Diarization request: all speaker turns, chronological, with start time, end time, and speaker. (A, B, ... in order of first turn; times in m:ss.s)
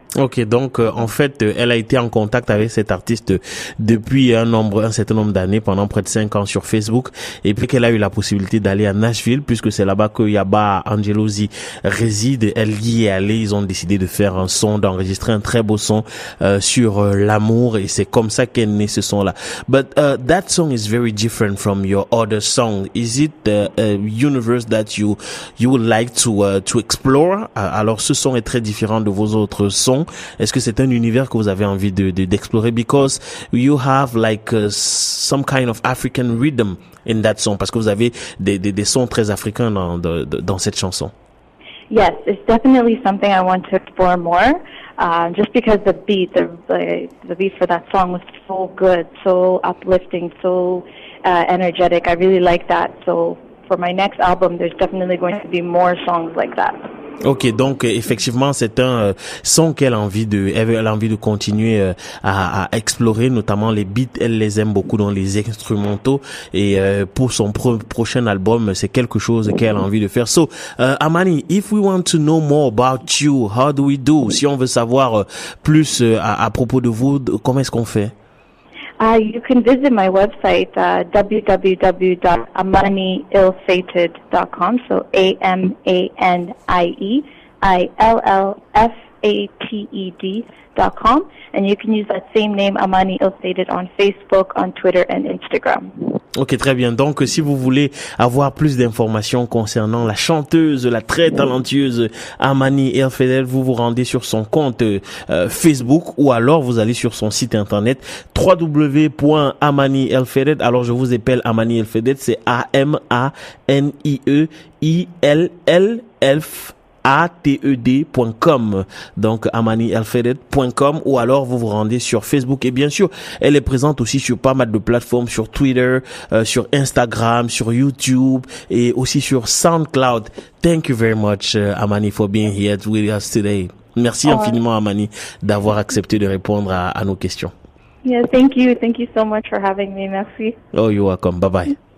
0:00.2-0:41.1 A
0:41.9-0:56.8 B
0:57.2-1:18.1 A
1:19.0-1:36.2 B
1:36.4-2:17.5 A
2:14.2-2:14.6 B
2:18.0-2:20.6 B
2:20.7-2:21.7 A